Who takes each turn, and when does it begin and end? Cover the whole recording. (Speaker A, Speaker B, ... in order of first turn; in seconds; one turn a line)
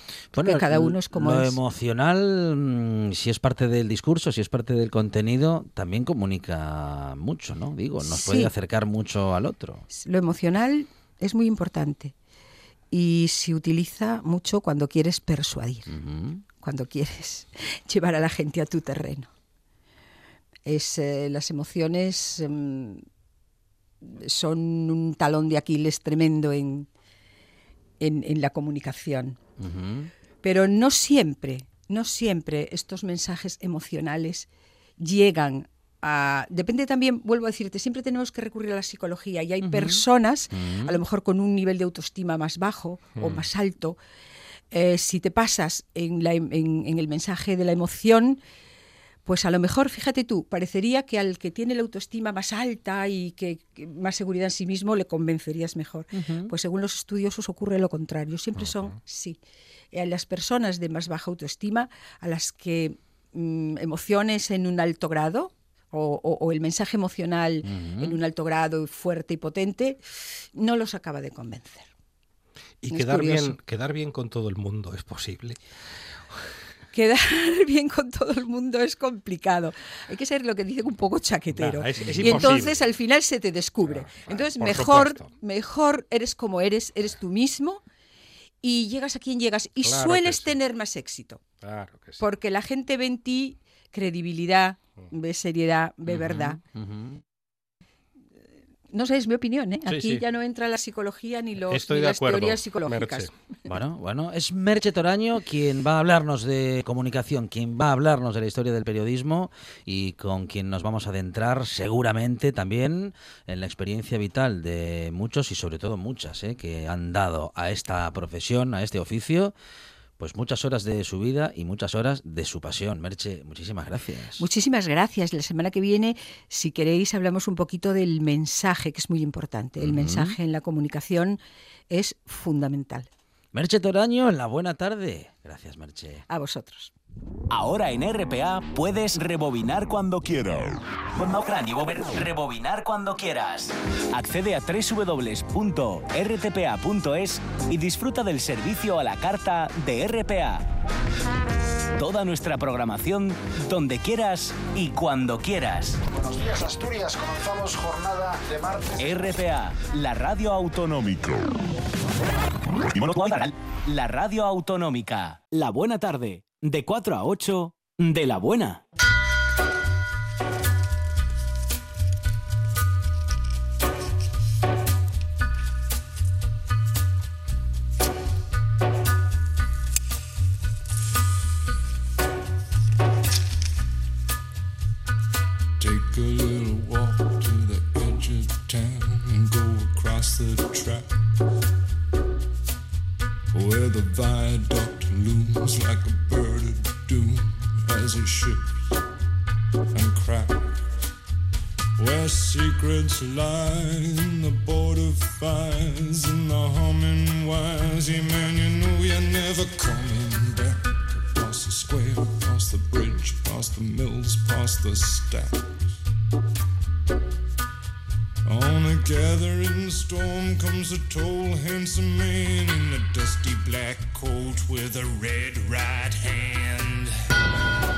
Speaker A: 0.3-9.8
Speaker B: 0.3-1.6
Speaker B: 8.0-8.5
Speaker B: 9.9-12.1
Speaker B: 12.9-15.9
Speaker A: 15.9-16.4
Speaker B: 16.6-19.3
Speaker B: 20.6-23.1
Speaker B: 24.0-26.9
Speaker B: 28.0-29.4
Speaker A: 29.6-30.1
Speaker B: 30.4-44.0
Speaker A: 39.6-41.0
Speaker B: 44.7-48.4
Speaker B: 49.2-59.4
Speaker A: 56.1-56.5
Speaker B: 59.9-70.0
Speaker A: 67.6-68.2
Speaker B: 70.5-71.9
Speaker C: 72.8-75.6
Speaker B: 72.9-73.5
Speaker B: 76.9-87.8
Speaker C: 81.5-82.8
Speaker A: 82.0-82.5
Speaker C: 83.8-85.3
Speaker B: 88.6-91.4
Speaker C: 89.8-90.6
Speaker C: 91.6-92.2
Speaker B: 92.2-96.6
Speaker A: 96.1-97.2
Speaker B: 98.9-103.3
Speaker C: 99.8-100.2
Speaker C: 101.7-103.3
Speaker A: 103.7-119.5
Speaker A: 120.2-124.5
Speaker B: 124.4-131.4
Speaker A: 129.8-130.4
Speaker B: 131.9-133.1
Speaker A: 133.5-136.2
Speaker B: 136.3-136.9
Speaker D: 137.5-150.7
Speaker D: 152.0-156.0
Speaker E: 156.1-159.1
Speaker D: 159.0-161.5
Speaker D: 162.9-168.8
Speaker F: 185.8-191.2
Speaker F: 193.5-198.9
Speaker F: 199.9-200.7
Speaker F: 202.0-215.8
Speaker F: 218.4-227.1